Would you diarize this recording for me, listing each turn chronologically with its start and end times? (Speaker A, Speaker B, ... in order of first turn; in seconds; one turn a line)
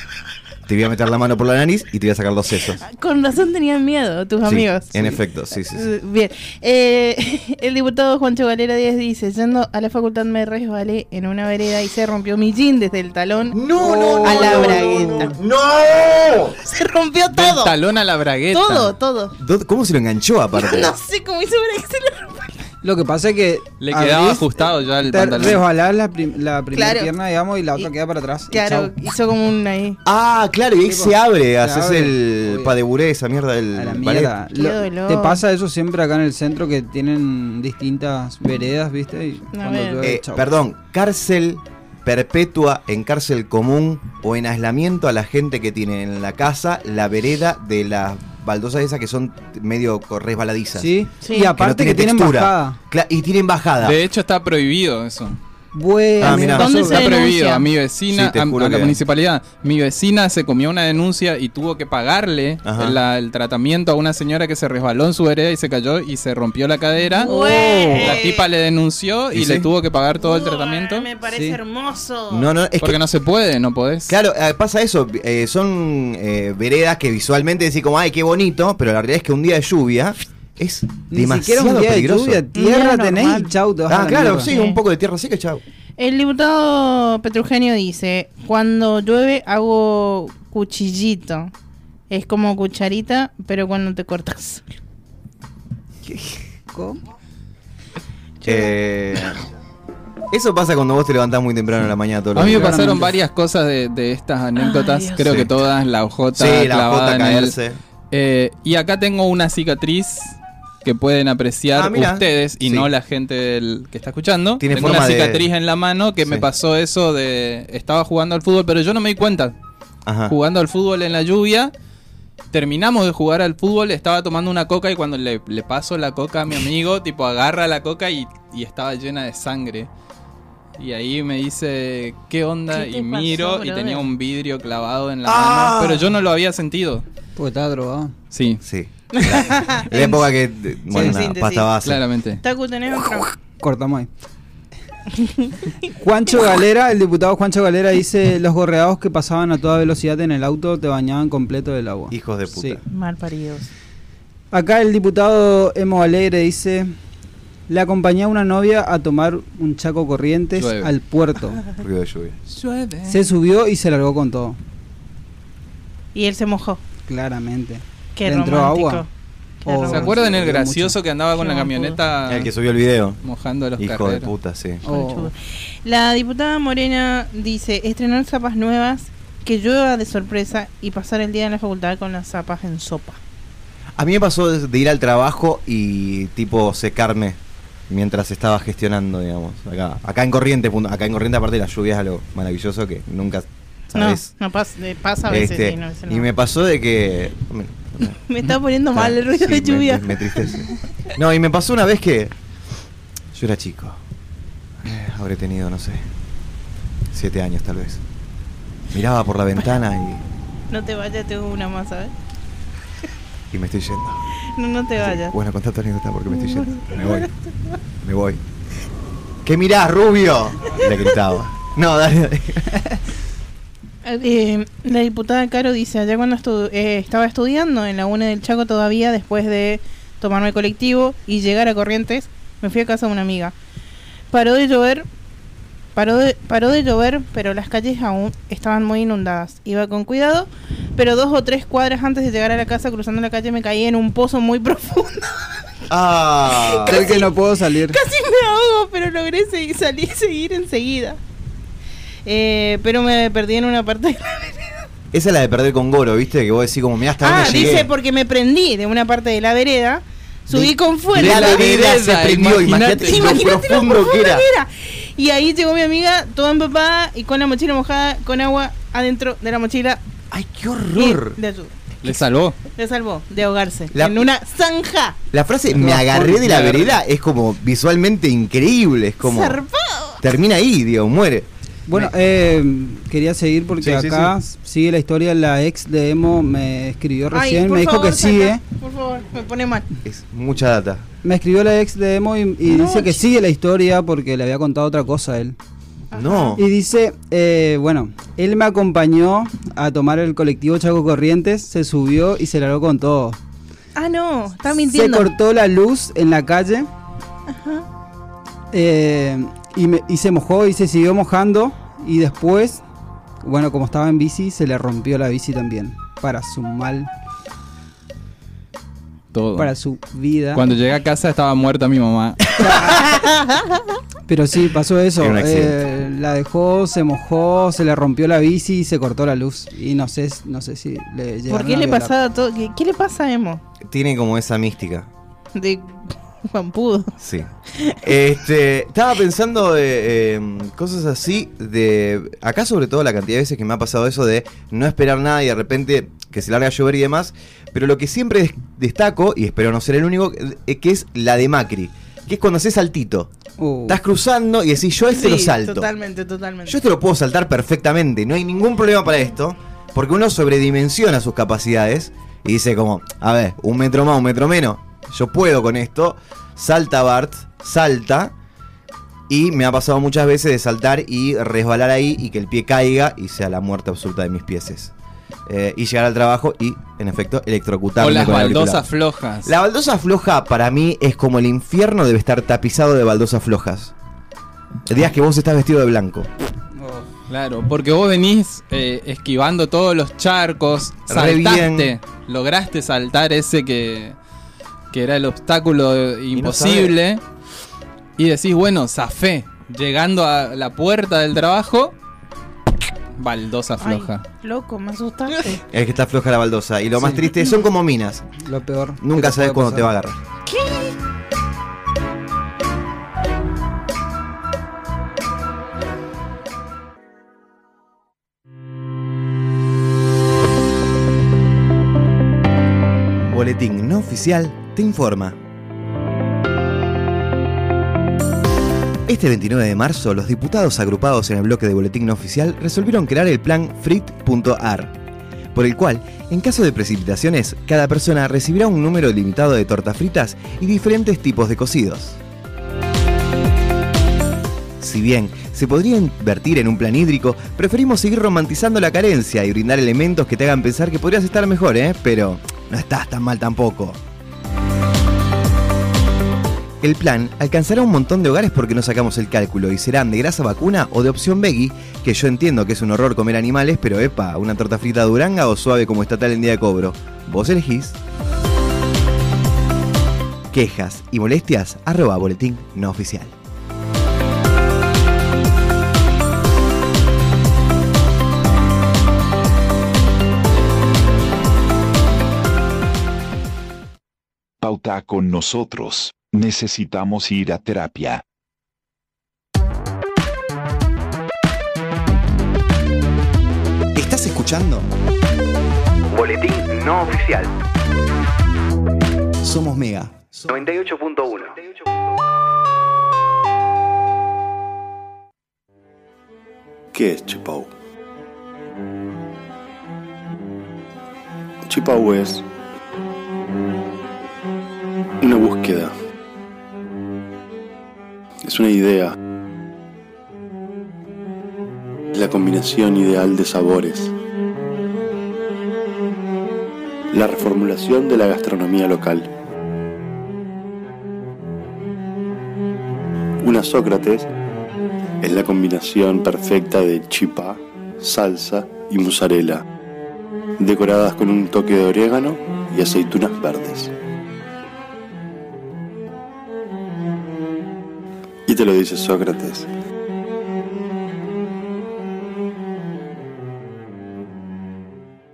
Speaker A: 0.7-2.8
Speaker B: 2.8-5.2
Speaker A: 4.4-5.9
Speaker B: 5.7-13.6
Speaker A: 13.5-16.6
Speaker C: 13.8-14.8
Speaker B: 14.2-15.3
Speaker B: 16.6-17.8
Speaker D: 17.3-18.9
Speaker B: 18.5-19.4
Speaker A: 19.4-20.9
Speaker B: 20.5-22.6
Speaker C: 22.8-24.5
Speaker D: 23.8-25.6
Speaker C: 25.0-28.9
Speaker B: 26.7-27.1
Speaker B: 28.5-30.0
Speaker A: 30.0-34.3
Speaker C: 30.8-32.7
Speaker C: 33.7-40.5
Speaker B: 34.5-35.4
Speaker B: 39.5-40.1
Speaker A: 40.0-50.9
Speaker C: 50.8-52.8
Speaker B: 51.2-51.5
Speaker A: 51.5-54.0
Speaker D: 53.8-55.4
Speaker C: 55.7-57.1
Speaker A: 56.2-56.9
Speaker B: 56.2-57.7
Speaker D: 56.4-71.1
Speaker A: 58.1-59.0
Speaker A: 62.6-63.0
Speaker B: 67.2-68.5
Speaker C: 67.2-68.2
Speaker A: 69.3-69.7
Speaker B: 70.2-72.5
Speaker C: 71.3-71.6
Speaker A: 72.3-73.0
Speaker D: 72.8-74.1
Speaker A: 74.1-82.4
Speaker C: 81.1-84.5
Speaker B: 82.5-83.5
Speaker A: 83.9-85.6
Speaker B: 84.4-84.8
Speaker B: 86.0-91.5
Speaker B: 92.1-94.6
Speaker C: 96.1-97.0
Speaker B: 98.4-98.8
Speaker A: 98.4-99.4
Speaker A: 100.3-103.0
Speaker D: 102.3-107.5
Speaker C: 102.4-103.1
Speaker B: 104.5-105.3
Speaker A: 105.2-105.5
Speaker A: 106.3-107.8
Speaker D: 108.1-119.5
Speaker A: 111.7-112.9
Speaker A: 114.6-115.5
Speaker A: 120.0-120.3
Speaker D: 120.3-121.7
Speaker D: 122.5-129.9
Speaker D: 130.8-137.0
Speaker B: 132.7-134.0
Speaker A: 135.2-136.1
Speaker C: 137.3-138.1
Speaker D: 138.3-138.6
Speaker A: 138.6-142.0
Speaker B: 139.1-140.3
Speaker C: 140.9-141.2
Speaker B: 140.9-141.7
Speaker D: 141.8-142.4
Speaker B: 142.4-143.3
Speaker C: 143.6-144.1
Speaker B: 145.2-145.7
Speaker C: 145.9-152.8
Speaker A: 152.1-152.8
Speaker B: 152.9-153.7
Speaker C: 154.5-156.9
Speaker C: 157.7-161.6
Speaker D: 160.6-160.9
Speaker A: 161.8-162.4
Speaker D: 162.5-163.2
Speaker C: 163.1-164.6
Speaker B: 166.1-166.8
Speaker C: 167.1-169.0
Speaker B: 168.2-169.1
Speaker B: 169.6-170.2
Speaker C: 169.6-171.0
Speaker D: 169.9-172.5
Speaker B: 171.4-172.0
Speaker A: 172.2-173.2
Speaker D: 173.2-174.3
Speaker A: 173.8-174.8
Speaker C: 174.8-175.3
Speaker B: 174.8-183.2
Speaker A: 184.0-194.3
Speaker B: 193.9-196.3
Speaker A: 195.3-198.2
Speaker B: 198.0-200.7
Speaker A: 198.9-202.3
Speaker A: 203.3-204.0
Speaker A: 204.8-206.1
Speaker A: 207.1-208.0
Speaker A: 208.9-210.2
Speaker B: 210.7-212.1
Speaker A: 213.5-214.2
Speaker B: 214.5-215.3
Speaker A: 215.0-217.3
Speaker B: 216.3-217.3
Speaker A: 218.0-218.4
Speaker A: 219.4-222.8
Speaker B: 224.0-233.5
Speaker B: 234.3-235.1
Speaker B: 235.9-245.9
Speaker A: 245.9-247.1
Speaker B: 246.4-251.2
Speaker C: 246.8-248.0
Speaker B: 252.2-254.8
Speaker A: 255.1-257.9
Speaker B: 257.2-261.7
Speaker A: 260.5-264.4
Speaker D: 261.1-263.4
Speaker B: 263.1-270.0
Speaker A: 270.3-271.4
Speaker B: 270.9-271.7
Speaker D: 272.0-272.6
Speaker B: 272.8-275.2
Speaker A: 273.9-274.2
Speaker A: 275.3-279.6
Speaker C: 275.7-276.9
Speaker B: 279.2-280.2
Speaker A: 280.2-282.1
Speaker C: 281.9-288.6
Speaker A: 283.8-284.3
Speaker B: 287.3-289.9
Speaker A: 290.0-291.1
Speaker C: 291.2-295.6
Speaker B: 292.6-293.2
Speaker B: 296.1-296.6
Speaker A: 296.1-296.6
Speaker C: 296.6-303.4
Speaker B: 303.9-305.3
Speaker C: 304.9-306.9
Speaker B: 307.5-307.9
Speaker C: 308.7-312.8
Speaker C: 313.4-317.1
Speaker D: 319.3-319.7
Speaker C: 319.6-320.7
Speaker D: 320.5-322.6
Speaker C: 322.6-323.1
Speaker B: 322.9-323.8
Speaker C: 324.3-332.1
Speaker A: 325.2-325.8
Speaker B: 331.5-333.6
Speaker A: 333.8-335.1
Speaker B: 335.5-337.1
Speaker A: 337.2-337.5
Speaker A: 338.0-353.3
Speaker C: 353.6-354.0
Speaker A: 353.9-355.9
Speaker B: 355.1-356.8
Speaker A: 356.6-368.3
Speaker A: 369.3-374.9
Speaker A: 375.5-378.9
Speaker D: 378.0-379.5
Speaker A: 379.4-383.9
Speaker A: 384.9-386.3
Speaker C: 386.7-387.1
Speaker D: 387.3-394.1
Speaker A: 391.1-391.9
Speaker D: 394.9-397.2
Speaker A: 396.3-396.9
Speaker D: 398.2-401.9
Speaker D: 403.2-404.2
Speaker B: 403.8-405.6
Speaker A: 405.7-408.3
Speaker C: 407.0-407.3
Speaker C: 408.4-409.9
Speaker A: 409.0-410.2
Speaker B: 410.5-410.9
Speaker A: 423.2-425.4
Speaker A: 429.1-434.9
Speaker A: 435.5-442.2
Speaker A: 444.8-454.0
Speaker A: 456.8-468.0
Speaker A: 470.5-473.3
Speaker E: 484.6-488.2
Speaker A: 493.9-494.9
Speaker A: 496.1-497.5
Speaker A: 499.4-501.6
Speaker F: 506.9-507.7
Speaker F: 511.6-512.4
Speaker F: 515.2-515.9
Speaker F: 518.4-519.1
Speaker F: 522.1-524.1
Speaker F: 527.1-529.3
Speaker F: 533.4-534.3
Speaker F: 535.2-539.6
Speaker F: 540.6-543.9
Speaker F: 548.5-549.7